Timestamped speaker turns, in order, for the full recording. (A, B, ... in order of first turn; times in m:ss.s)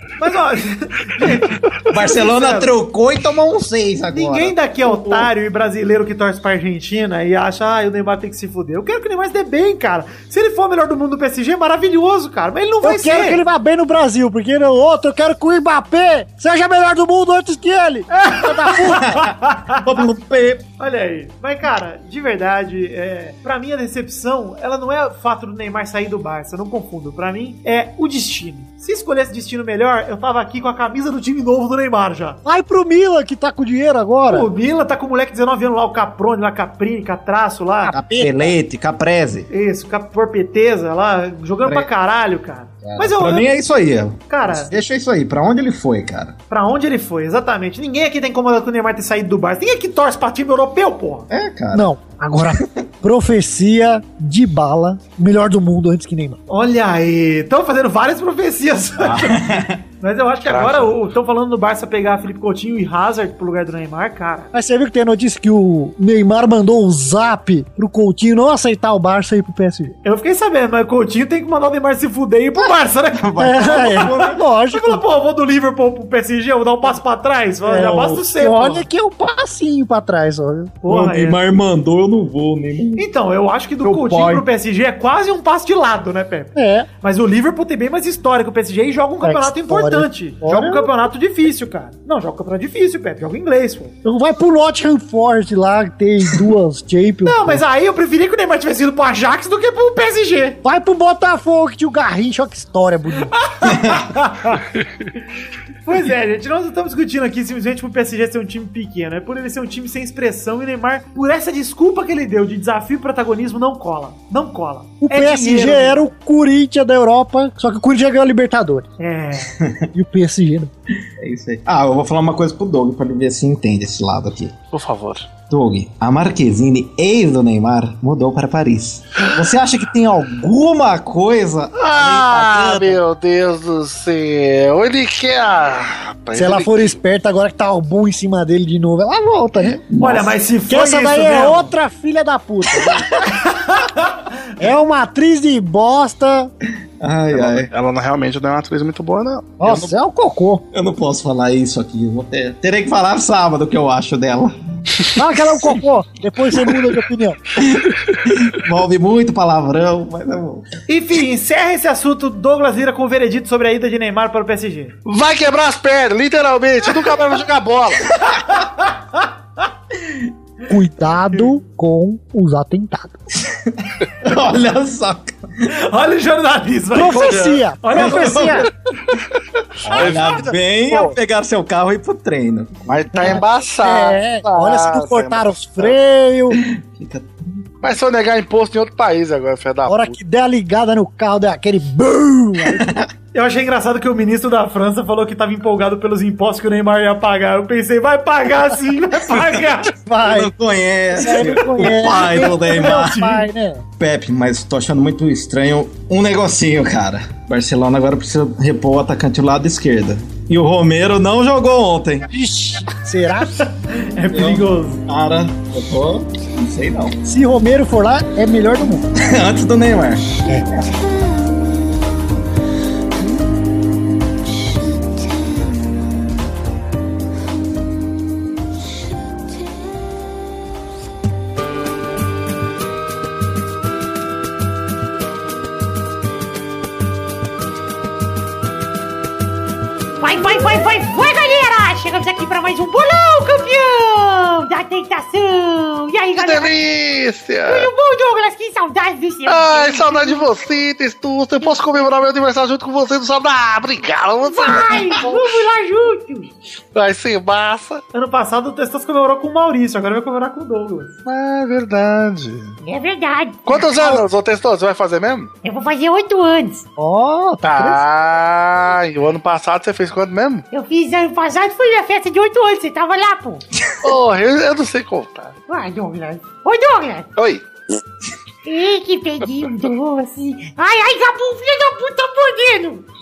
0:00.2-0:02.7 A
0:01.9-0:04.6 B
0:04.1-0:13.4 A
0:04.9-0:05.2 C
0:12.8-0:19.2 C
0:18.2-0:19.9 A
0:19.0-0:20.6 B
0:20.8-0:32.4 A
0:32.4-0:34.5 C
0:34.3-0:37.9 A
0:37.8-0:38.5 C
0:37.9-0:39.5 B
0:39.5-0:43.5 A
0:42.8-0:46.4 B
0:44.3-0:44.7 A
0:46.5-0:51.3 A
0:51.3-0:51.9 B
0:51.7-0:56.4 C
0:56.5-0:59.4 A
0:59.0-0:59.8 B
1:00.0-1:04.5 A
1:00.4-1:00.9 D
1:04.5-1:10.0 C
1:10.0-1:18.9 A
1:12.6-1:14.4 B
1:13.4-1:15.0 C
1:17.6-1:20.8 C
1:20.8-1:21.4 A
1:20.9-1:23.1 B
1:23.0-1:34.0 A
1:23.8-1:24.4 B
1:26.6-1:26.9 C
1:29.2-1:30.9 C
1:34.0-1:37.6 C
1:37.3-1:40.6 A
1:40.6-1:43.3 C
1:43.4-1:44.6 A
1:43.7-1:44.0 B
1:45.9-1:56.1 A
1:55.0-1:58.9 C
1:59.0-1:59.6 A
1:59.9-2:00.7 C
2:01.2-2:04.6 B
2:04.7-2:05.3 D
2:05.5-2:13.0 B
2:11.8-2:17.0 D
2:16.4-2:19.8 C
2:19.9-2:20.3 B
2:20.0-2:21.7 A
2:20.7-2:23.1 C
2:23.2-2:24.1 A
2:24.6-2:26.5 C
2:27.0-2:27.7 B
2:27.3-2:29.8 D
2:29.6-2:30.6 C
2:30.7-2:34.6 B
2:35.2-2:37.4 C
2:37.6-2:40.7 B
2:40.9-2:45.0 A
2:45.1-2:48.2 D
2:48.3-2:49.2 A
2:50.7-2:53.2 C
2:53.5-2:55.4 B
2:55.7-2:58.7 A
2:56.9-2:58.7 C
2:58.0-2:58.5 B
2:59.8-3:00.6 D
2:59.9-3:03.3 B
3:02.9-3:06.0 D
3:03.2-3:06.6 C
3:06.5-3:07.6 B
3:07.8-3:10.2 D
3:09.9-3:13.0 C
3:12.7-3:13.1 B
3:13.3-3:19.9 A
3:20.1-3:20.5 C
3:20.2-3:23.4 B
3:21.2-3:23.8 C
3:21.3-3:23.1 A
3:24.0-3:32.3 B
3:32.3-3:33.7 C
3:33.6-3:35.0 A
3:34.3-3:37.2 B
3:37.3-3:39.0 C
3:39.2-3:40.4 B
4:00.2-4:06.8 E
4:06.4-4:07.9 D
4:07.7-4:10.4 E
4:09.5-4:15.4 D
4:14.4-4:16.5 E
4:16.9-4:18.0 D
4:18.1-4:21.2 A
4:21.3-4:22.8 D
4:22.8-4:24.2 E
4:23.7-4:25.5 D
4:25.6-4:26.9 E
4:27.0-4:28.0 C
4:27.6-4:30.6 D
4:30.7-4:33.6 E
4:34.0-4:35.6 D
4:35.7-4:37.3 E
4:37.4-4:37.6 D
4:38.6-4:43.1 E